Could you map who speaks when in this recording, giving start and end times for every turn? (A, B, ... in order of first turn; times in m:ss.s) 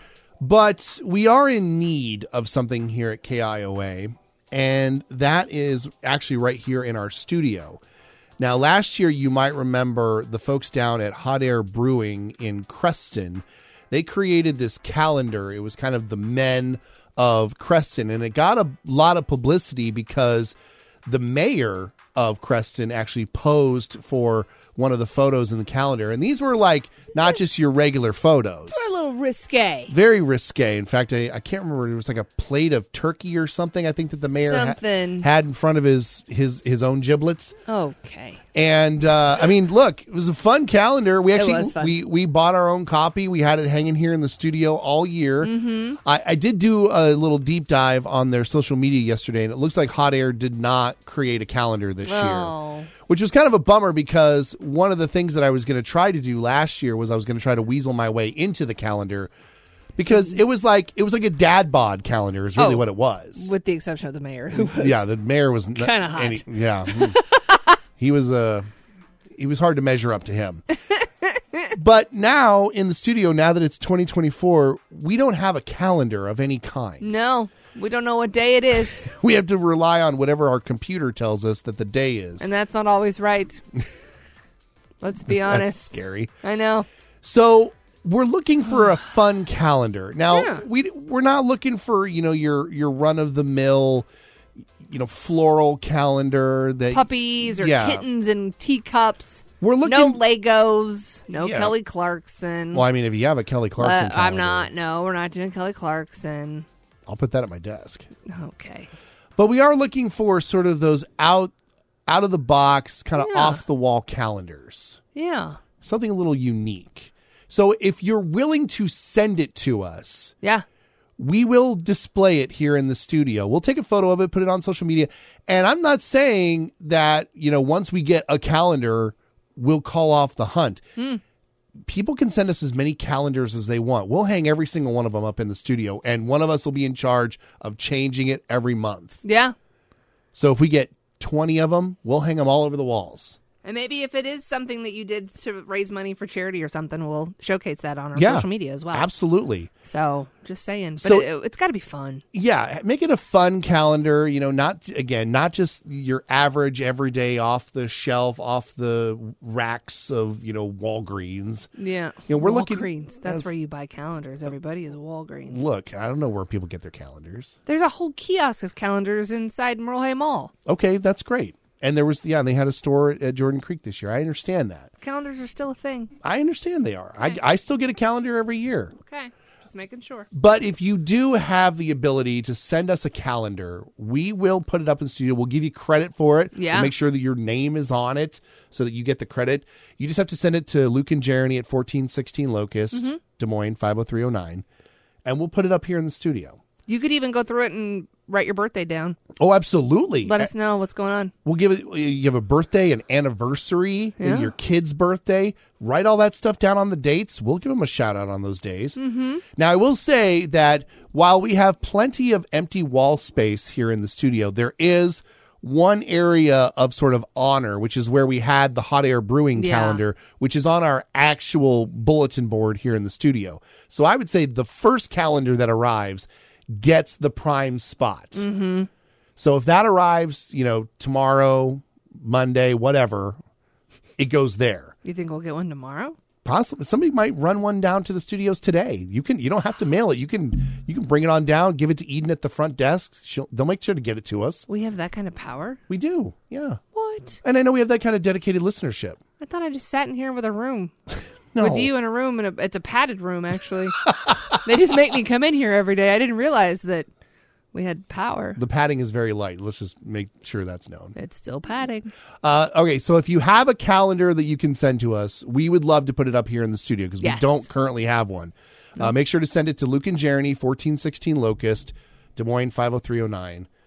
0:00.4-0:07.8 A
0:08.4-0:20.5 A
0:21.0-0:28.9 A
0:28.7-0:29.9 B
0:29.9-0:37.5 A
0:34.4-0:35.3 B
0:37.6-0:38.4 B
0:38.5-0:59.3 A
0:41.3-0:42.0 B
0:45.4-0:46.0 B
0:52.0-0:52.9 B
1:00.0-1:03.5 A
1:02.6-1:02.8 B
1:03.4-1:05.0 B
1:04.5-1:07.2 A
1:05.7-1:07.6 B
1:08.0-1:08.7 A
1:09.3-1:10.6 A
1:11.7-1:17.1 A
1:17.0-1:19.1 B
1:18.8-1:22.4 A
1:22.4-1:23.6 B
1:25.0-1:26.8 B
1:25.3-1:26.3 A
1:27.2-1:34.1 A
1:30.3-1:30.6 B
1:34.8-1:38.0 A
1:36.9-1:42.8 B
1:39.6-1:40.2 A
1:41.3-1:41.8 A
1:42.7-1:44.7 A
1:43.8-1:46.6 B
1:47.1-1:48.1 A
1:48.2-1:48.9 B
1:49.4-1:51.5 A
1:52.1-1:55.0 A
1:53.2-1:53.6 B
1:55.1-1:55.6 B
1:55.8-2:00.3 A
2:01.2-2:10.8 A
2:11.9-2:19.2 A
2:19.2-2:19.5 B
2:20.3-2:23.4 A
2:23.6-2:29.1 B
2:28.1-2:29.7 A
2:29.8-2:32.2 B
2:31.0-2:31.3 A
2:32.3-2:41.7 A
2:41.8-2:45.6 B
2:42.3-2:43.5 A
2:45.5-2:47.5 A
2:47.6-2:50.5 B
2:50.6-2:54.9 A
2:55.0-2:56.1 B
2:56.2-2:58.9 A
2:59.0-3:00.3 B
3:00.3-3:14.6 A
3:06.5-3:06.9 B
3:12.9-3:13.2 B
3:15.2-3:16.6 A
3:16.9-3:19.2 B
3:19.4-3:20.5 A
3:20.2-3:21.3 B
3:21.4-3:29.0 A
3:24.2-3:24.5 B
3:29.0-3:29.4 B
3:29.5-3:48.4 A
3:39.5-3:40.0 B
3:48.3-3:48.9 B
3:49.4-3:53.4 A
3:54.2-3:54.9 A
3:55.0-3:56.2 B
3:56.4-4:04.6 A
4:04.7-4:05.8 B
4:05.9-4:06.8 A
4:06.9-4:07.4 B
4:07.4-4:09.2 A
4:09.4-4:10.9 B
4:11.5-4:11.9 A
4:11.6-4:14.0 B
4:14.6-4:17.1 B
4:17.7-4:18.6 B
4:18.6-4:21.2 A
4:21.1-4:22.1 B
4:22.4-4:33.7 A
4:27.2-4:27.6 B